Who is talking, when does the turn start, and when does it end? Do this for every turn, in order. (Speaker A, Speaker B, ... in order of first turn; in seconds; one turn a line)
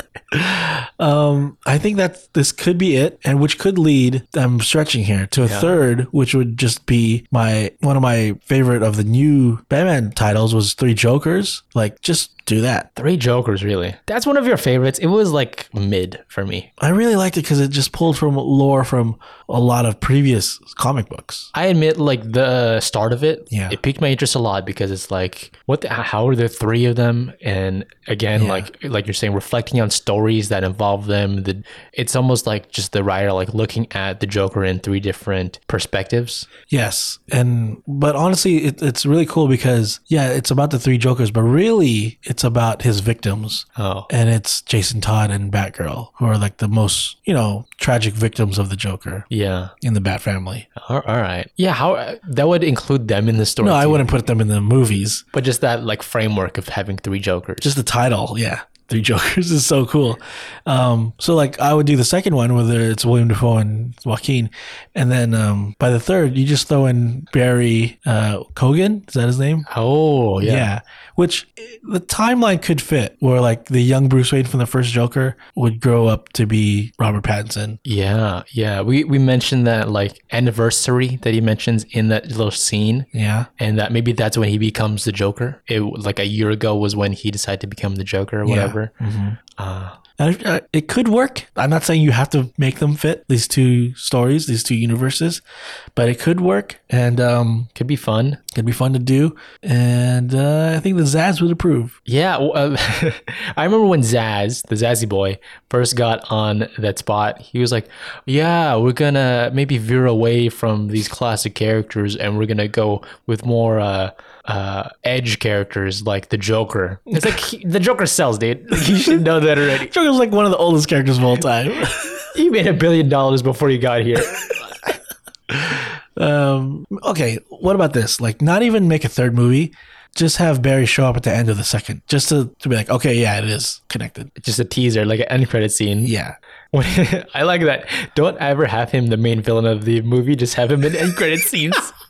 Speaker A: 0.3-12.9
Speaker B: 5.4-5.7
Speaker B: 12.9-16.7
Speaker A: 16.8-21.5
Speaker B: 21.5-36.5
Speaker A: 23.5-23.8
Speaker A: 28.4-28.7
Speaker A: 36.7-49.3
Speaker B: 43.8-44.1
Speaker B: 49.3-49.7
Speaker A: 49.8-50.7
Speaker B: 50.8-54.1
Speaker A: 53.6-55.2
Speaker B: 55.3-57.7
Speaker A: 57.6-69.7
Speaker B: 69.7-70.7
Speaker A: 70.4-77.8
Speaker B: 77.8-88.9
Speaker A: 83.1-83.5
Speaker A: 88.4-89.4
Speaker B: 89.6-90.0
Speaker A: 90.2-95.4
Speaker A: 96.0-97.7
Speaker B: 97.7-98.4
Speaker A: 98.5-102.0
Speaker B: 102.1-119.9
Speaker A: 118.8-122.3
Speaker B: 122.3-124.9
Speaker A: 125.5-134.3
Speaker B: 134.4-136.1
Speaker A: 136.0-136.3
Speaker B: 136.7-141.9